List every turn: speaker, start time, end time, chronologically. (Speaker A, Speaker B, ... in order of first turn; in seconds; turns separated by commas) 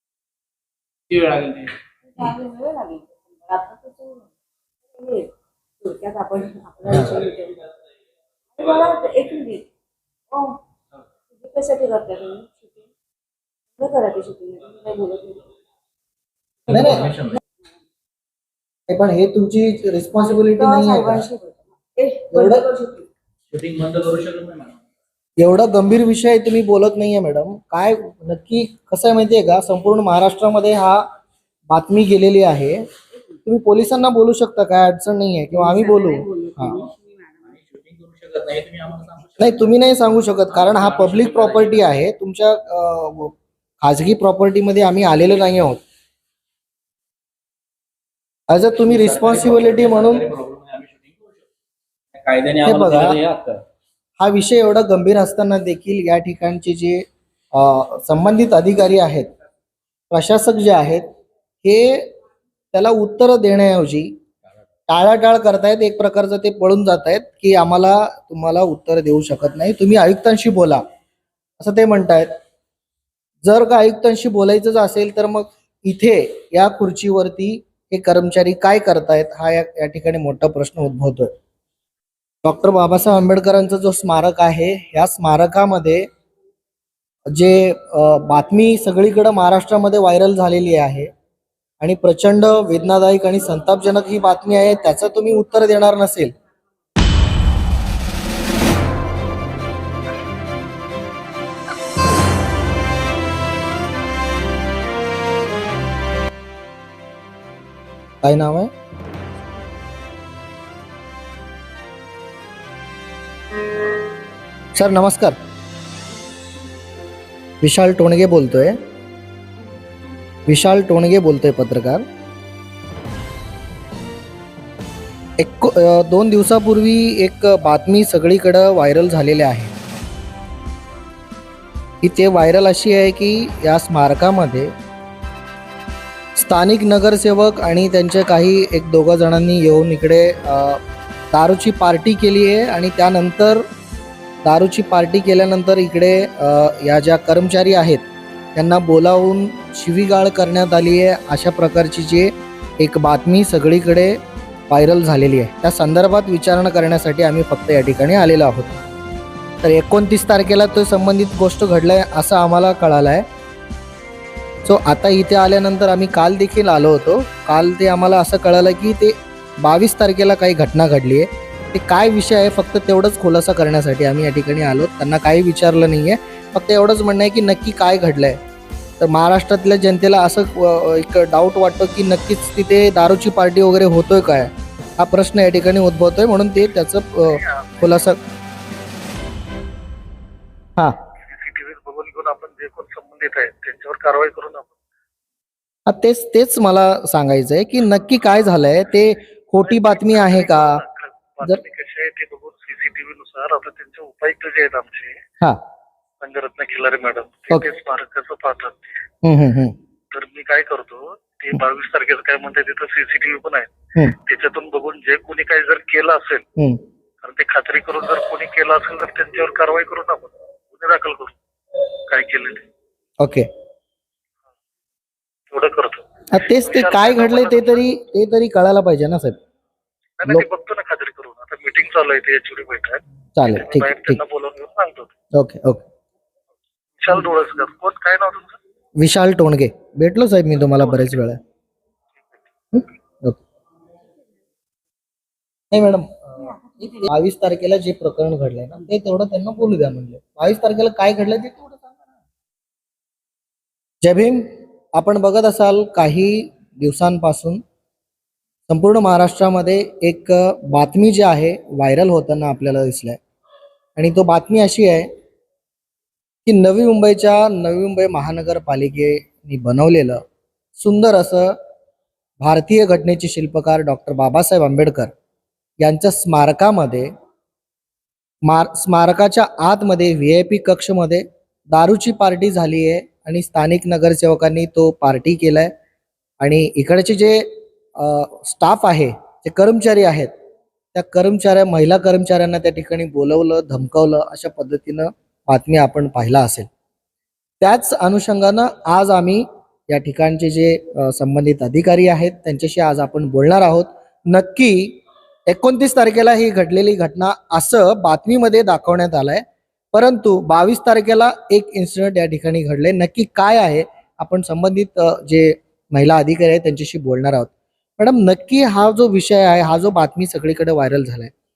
Speaker A: 1.1-1.7, Speaker B: 2.1-4.3, Speaker B: 5.0-7.7, Speaker C: 6.9-7.2, Speaker B: 8.6-9.7, Speaker B: 10.3-10.6, Speaker B: 11.3-12.8, Speaker B: 13.8-15.4, Speaker A: 16.7-17.4, Speaker C: 16.7-17.1, Speaker C: 18.9-21.3, Speaker B: 20.2-23.1, Speaker C: 22.3-22.7, Speaker A: 23.5-24.8, Speaker C: 25.4-31.1, Speaker C: 31.7-32.8, Speaker C: 33.5-36.8, Speaker B: 35.5-37.5, Speaker A: 37.5-39.7, Speaker C: 39.4-45.8, Speaker A: 40.5-41.9, Speaker C: 48.5-50.3, Speaker A: 48.8-51.4, Speaker A: 52.1-53.6, Speaker C: 52.6-53.2, Speaker C: 54.2-59.3, Speaker C: 60.1-61.1, Speaker C: 61.6-62.1, Speaker C: 62.7-64.1, Speaker C: 64.9-70.8, Speaker C: 71.6-72.3, Speaker C: 73.4-81.3, Speaker C: 82.4-86.1, Speaker C: 87.3-91.1, Speaker C: 91.8-96.3, Speaker C: 108.2-108.7, Speaker C: 114.8-115.4, Speaker C: 117.6-118.8, Speaker C: 120.5-122.0, Speaker C: 125.4-129.7, Speaker C: 132.0-134.7, Speaker C: 136.4-140.8, Speaker C: 141.3-143.6, Speaker C: 144.4-148.0, Speaker C: 148.6-158.8, Speaker C: 159.6-163.2, Speaker C: 164.7-178.4, Speaker C: 179.0-188.2, Speaker D: 187.3-188.1, Speaker D: 191.2-194.7, Speaker C: 195.9-200.8, Speaker D: 199.6-205.2, Speaker D: 206.2-208.9, Speaker C: 209.2-209.8, Speaker D: 210.1-213.7, Speaker D: 214.2-216.4, Speaker D: 217.2-221.3, Speaker D: 222.1-222.7, Speaker C: 223.2-223.5, Speaker D: 225.5-227.8, Speaker C: 226.3-229.4, Speaker D: 230.2-235.1, Speaker C: 233.4-234.2, Speaker C: 235.3-235.8, Speaker D: 237.0-238.6, Speaker C: 239.0-241.4, Speaker D: 240.8-241.2, Speaker C: 242.7-243.4, Speaker C: 245.7-252.0, Speaker C: 254.0-257.6, Speaker C: 258.7-263.2, Speaker C: 264.0-265.1, Speaker C: 266.5-270.2, Speaker C: 270.8-271.6, Speaker C: 272.4-275.1, Speaker C: 275.8-277.1, Speaker C: 278.4-285.7, Speaker C: 286.4-290.3, Speaker C: 290.9-296.7, Speaker C: 297.6-321.3